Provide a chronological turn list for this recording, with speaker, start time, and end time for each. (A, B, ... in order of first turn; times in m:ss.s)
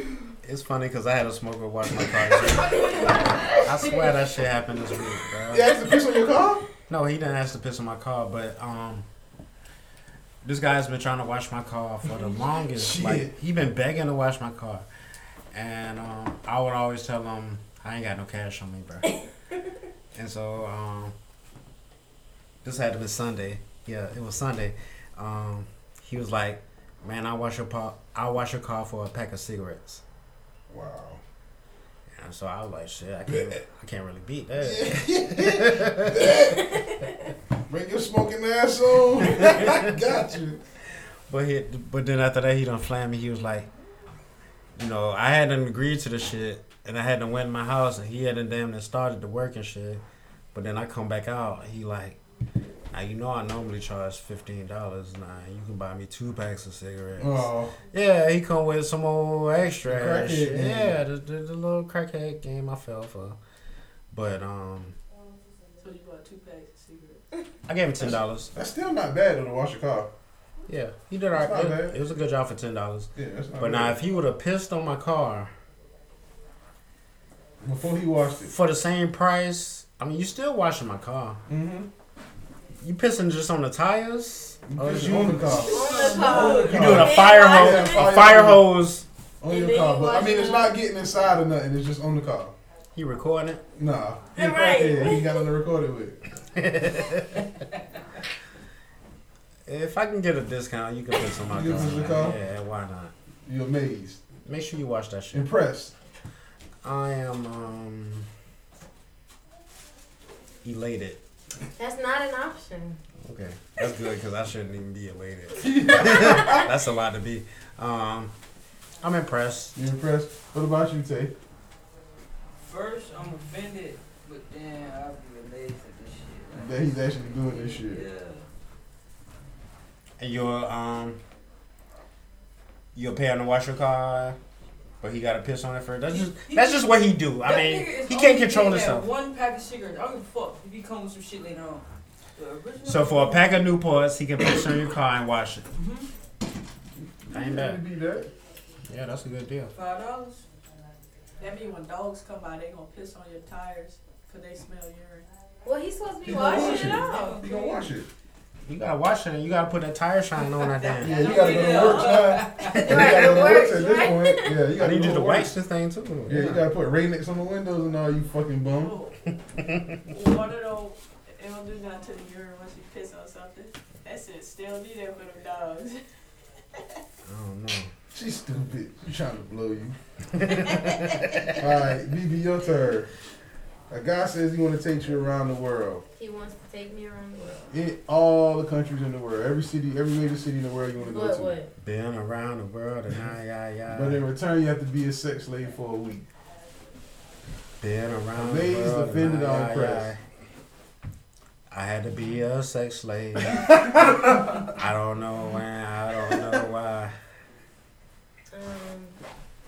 0:00.4-0:03.0 A
0:02.7-0:03.7 B
0:03.6-0:05.8 A
0:05.5-0:06.6 C
0:06.9-0:09.1 A
0:10.4-0:14.9 A
0:12.8-0:13.3 C
0:15.5-0:19.1 A
0:20.1-0:21.2 A
0:22.6-0:30.0 A
0:30.7-0:31.2 C
0:32.1-0:36.4 A
0:33.3-0:33.6 C
0:34.6-0:36.9 C
0:36.8-0:37.1 D
0:37.7-0:40.6 C
0:39.3-0:39.8 A
0:41.3-0:43.7 A
0:44.8-0:50.0 A
0:50.5-0:52.2 A
0:52.9-1:03.4 A
0:57.2-0:57.8 C
0:59.8-1:01.0 C
1:04.1-1:05.0 A
1:05.8-1:07.2 E
1:07.7-1:08.5 A
1:08.0-1:10.1 C
1:10.7-1:15.5 A
1:11.3-1:12.0 C
1:13.2-1:14.0 C
1:17.6-1:18.5 C
1:18.4-1:21.4 A
1:21.5-1:21.9 C
1:22.8-1:25.8 A
1:24.7-1:28.7 C
1:25.5-1:26.8 B
1:25.7-1:28.1 D
1:25.9-1:26.4 E
1:26.6-1:29.0 A
1:29.4-1:32.6 C
1:29.5-1:30.7 D
1:33.0-1:33.6 A
1:33.8-1:36.2 C
1:34.4-1:35.5 D
1:36.6-1:37.5 A
1:39.7-1:43.1 A
1:41.5-1:42.4 C
1:43.5-1:44.2 C
1:44.4-1:45.5 A
1:45.3-1:45.9 C
1:46.8-1:48.3 A
1:50.6-1:51.2 A
1:51.8-1:53.0 D
1:53.2-1:58.3 A
1:55.6-1:56.7 C
1:59.0-1:59.8 A
1:59.8-2:01.3 C
2:02.6-2:08.4 B
2:06.6-2:08.0 C
2:10.2-2:11.2 A
2:13.0-2:14.4 A
2:15.0-2:19.1 A
2:16.1-2:21.8 B
2:22.4-2:23.4 B
2:22.8-2:25.7 A
2:25.8-2:26.1 B
2:27.3-2:27.8 A
2:27.3-2:28.3 C
2:28.9-2:29.7 A
2:29.7-2:30.4 B
2:31.4-2:35.3 E
2:35.6-2:37.4 D
2:36.2-2:38.1 C
2:36.4-2:37.9 B
2:38.6-2:41.4 A
2:41.0-2:45.5 C
2:41.0-2:43.0 B
2:41.2-2:42.6 E
2:42.7-2:43.2 A
2:42.8-2:44.6 D
2:44.8-2:46.6 A
2:46.3-2:49.0 C
2:48.8-2:49.2 E
2:49.3-2:50.1 A
2:50.1-2:56.0 E
2:57.3-2:57.9 A
2:58.1-3:00.0 C
3:00.3-3:01.6 A
3:01.4-3:03.1 C
3:03.9-3:06.0 C
3:06.2-3:07.7 D
3:07.7-3:11.5 C
3:11.0-3:11.7 D
3:11.8-3:14.2 A
3:13.9-3:16.2 C
3:17.8-3:20.2 A
3:18.4-3:20.1 C
3:21.7-3:23.8 A
3:23.4-3:24.7 C
3:24.6-3:27.1 A
3:28.5-3:29.2 D